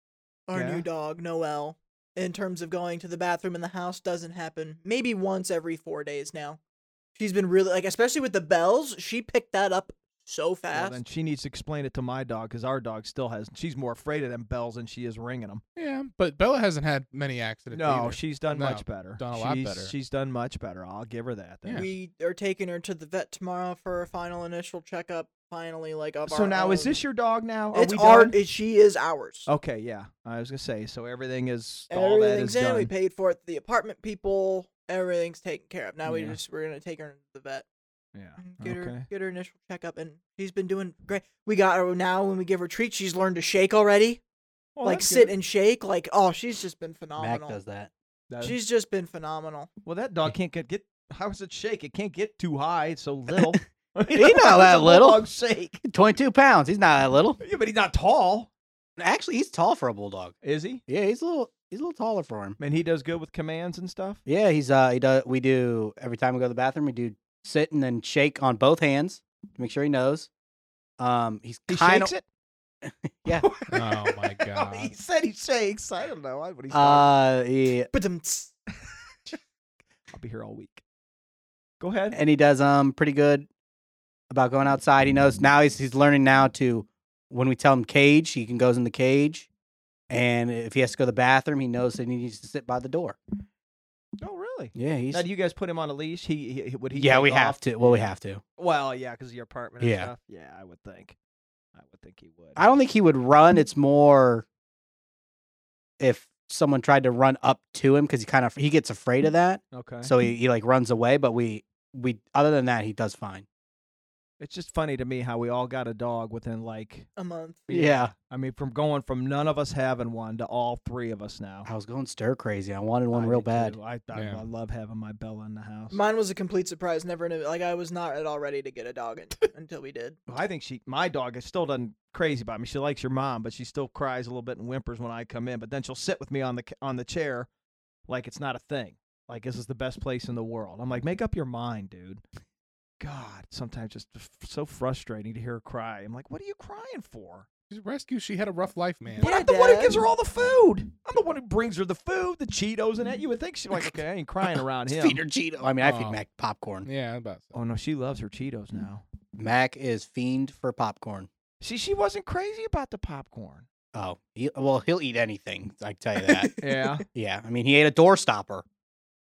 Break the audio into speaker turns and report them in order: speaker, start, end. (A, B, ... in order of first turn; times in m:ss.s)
0:00.5-0:06.6 A
0:00.5-0:00.8 B
0:07.2-0:11.0 A
0:10.7-0:15.6 B
0:15.8-0:19.9 C
0:17.7-0:21.9 B
0:21.7-0:27.0 A
0:26.3-0:28.4 B
0:27.7-0:29.5 A
0:29.5-0:32.9 B
0:31.9-0:37.6 A
0:36.1-0:36.4 B
0:38.2-0:39.1 B
0:38.4-0:44.2 A
0:44.8-0:45.3 B
0:44.8-0:47.6 A
0:47.2-0:47.9 D
0:48.3-0:48.6 B
0:48.4-0:49.7 A
0:49.8-0:55.8 B
0:54.1-0:55.2 D
0:55.8-0:57.4 D
0:57.4-0:58.5 B
0:59.0-1:00.4 D
1:00.4-1:00.8 B
1:00.9-1:02.6 D
1:02.6-1:04.2 B
1:04.3-1:10.3 D
1:11.0-1:12.1 D
1:11.7-1:12.2 B
1:12.8-1:13.5 D
1:13.3-1:17.1 B
1:13.7-1:14.9 C
1:16.7-1:17.9 D
1:17.9-1:18.6 A
1:20.1-1:20.8 B
1:21.8-1:22.2 B
1:22.1-1:23.5 D
1:24.3-1:29.5 D
1:30.1-1:33.2 D
1:34.2-1:41.2 B
1:34.8-1:35.3 D
1:37.0-1:38.4 D
1:39.8-1:40.1 D
1:41.8-1:42.6 B
1:42.6-1:44.5 D
1:46.0-1:53.5 D
1:49.7-1:50.1 B
1:54.4-1:57.1 B
1:57.2-1:57.7 A
1:57.7-2:01.7 B
1:57.7-1:58.1 D
2:01.7-2:03.8 D
2:03.1-2:06.0 B
2:04.1-2:04.4 C
2:05.9-2:10.2 A
2:10.3-2:17.5 B
2:18.1-2:22.2 B
2:23.0-2:27.5 B
2:27.7-2:29.3 C
2:29.2-2:30.0 A
2:29.2-2:35.2 B
2:34.9-2:36.9 D
2:35.8-2:36.2 C
2:36.8-2:37.6 C
2:37.5-2:39.0 B
2:39.4-2:41.3 D
2:41.6-2:43.7 B
2:43.9-2:46.5 D
2:46.6-2:47.0 B
2:47.1-2:48.6 D